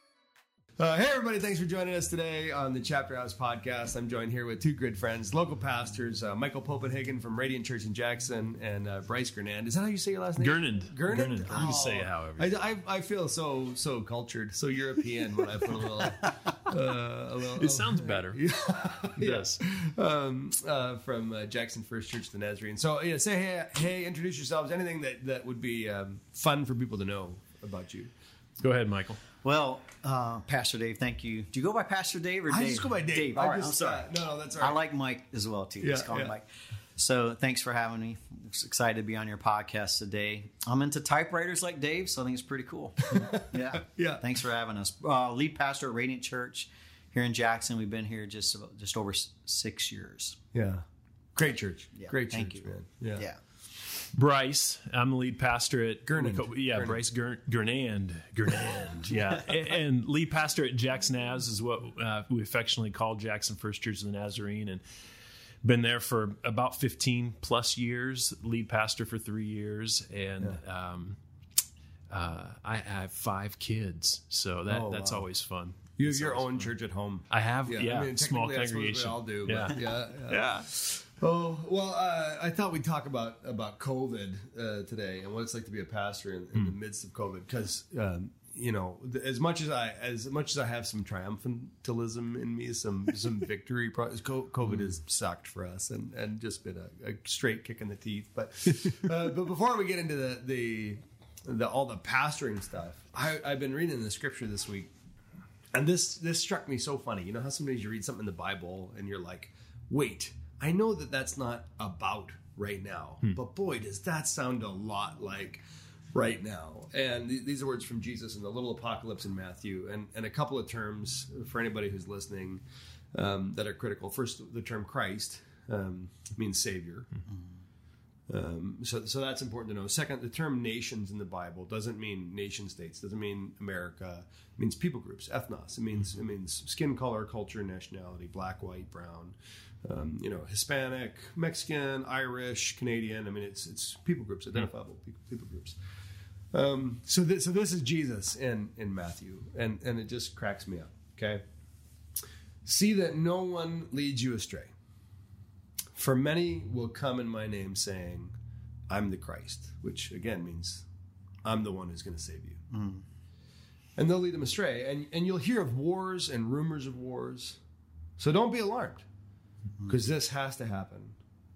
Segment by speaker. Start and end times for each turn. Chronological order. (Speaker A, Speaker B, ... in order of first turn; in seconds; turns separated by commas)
Speaker A: 0.8-28.1, Speaker B: 10.4-12.5, Speaker C: 11.5-12.1, Speaker B: 17.5-19.6, Speaker B: 28.6-29.2, Speaker C: 29.4-50.4, Speaker A: 32.5-34.8, Speaker A: 35.8-36.3, Speaker A: 43.1-44.2, Speaker A: 50.5-53.2, Speaker C: 52.0-53.4, Speaker B: 54.1-64.8, Speaker A: 56.0-57.0, Speaker B: 65.6-71.2, Speaker B: 72.1-76.7, Speaker A: 74.7-75.2, Speaker A: 76.0-104.9, Speaker B: 77.3-80.7, Speaker A: 105.7-115.6, Speaker A: 116.1-122.6, Speaker A: 123.1-127.1, Speaker A: 128.3-145.8, Speaker A: 146.5-151.4, Speaker A: 152.6-154.7, Speaker A: 155.9-158.3, Speaker A: 158.9-160.9, Speaker A: 161.4-162.6, Speaker C: 162.7-163.0, Speaker A: 163.9-167.6, Speaker A: 168.2-169.1, Speaker A: 169.9-171.2